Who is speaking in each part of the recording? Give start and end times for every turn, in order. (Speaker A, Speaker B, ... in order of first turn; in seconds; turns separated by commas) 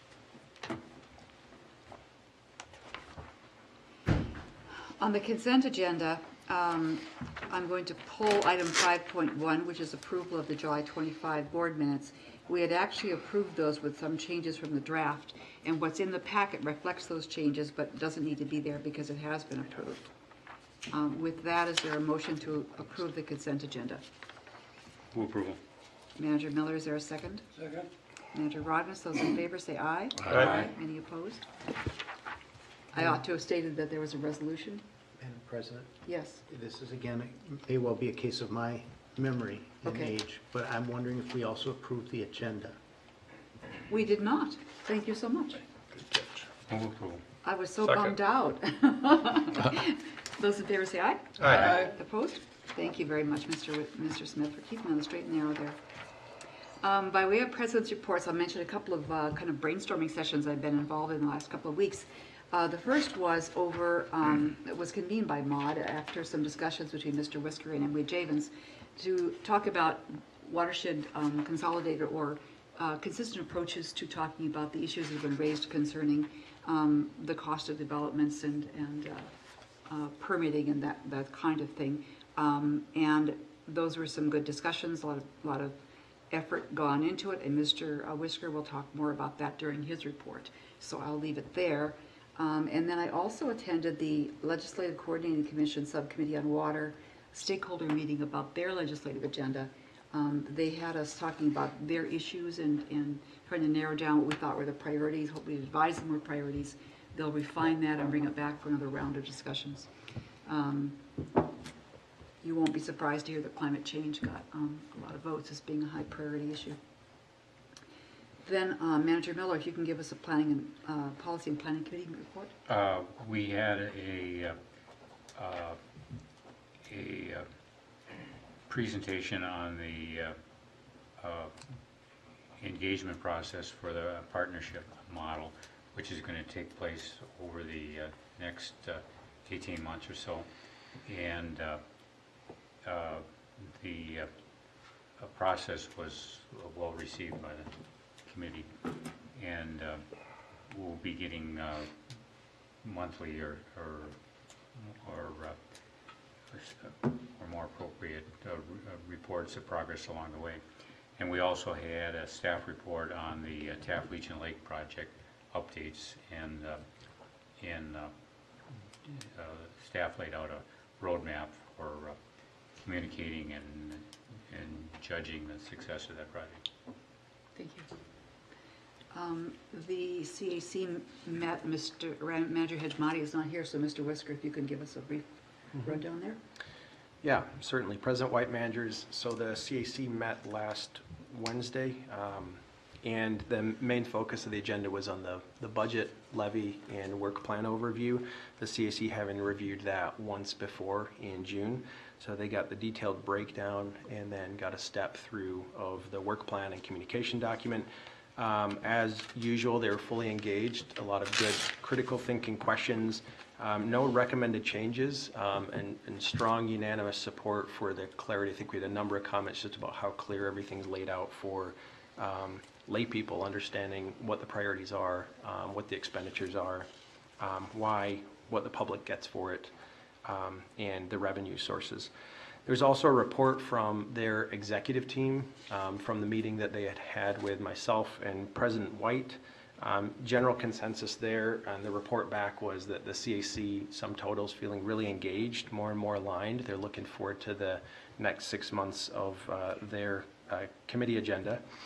Speaker A: 5.0-20.1, Speaker A: 20.9-24.0, Speaker B: 25.1-25.6, Speaker A: 26.2-27.5, Speaker A: 28.3-31.4, Speaker A: 32.9-34.8, Speaker C: 35.2-42.8, Speaker A: 36.0-36.4, Speaker A: 39.8-40.1, Speaker A: 43.9-45.6, Speaker B: 46.7-47.2, Speaker A: 47.4-55.8, Speaker A: 56.8-79.3, Speaker A: 79.9-85.8, Speaker A: 86.3-109.9, Speaker A: 110.4-111.0, Speaker A: 112.4-116.8, Speaker A: 118.4-122.5, Speaker B: 122.7-124.6, Speaker B: 125.3-125.8, Speaker B: 126.8-127.5, Speaker B: 128.7-130.4, Speaker B: 131.2-131.6, Speaker B: 132.6-140.5, Speaker B: 141.0-141.8, Speaker B: 142.8-144.3, Speaker B: 145.2-147.7, Speaker B: 148.2-148.7, Speaker B: 149.3-150.1, Speaker B: 150.7-151.9, Speaker B: 152.8-154.2, Speaker B: 154.7-155.6, Speaker B: 156.5-160.6, Speaker B: 161.2-166.8, Speaker B: 167.6-168.1, Speaker B: 169.0-172.2, Speaker B: 172.8-176.6, Speaker A: 177.6-177.9, Speaker A: 179.1-186.4, Speaker D: 187.2-226.9, Speaker D: 227.4-229.7, Speaker D: 230.2-232.1, Speaker D: 232.7-251.6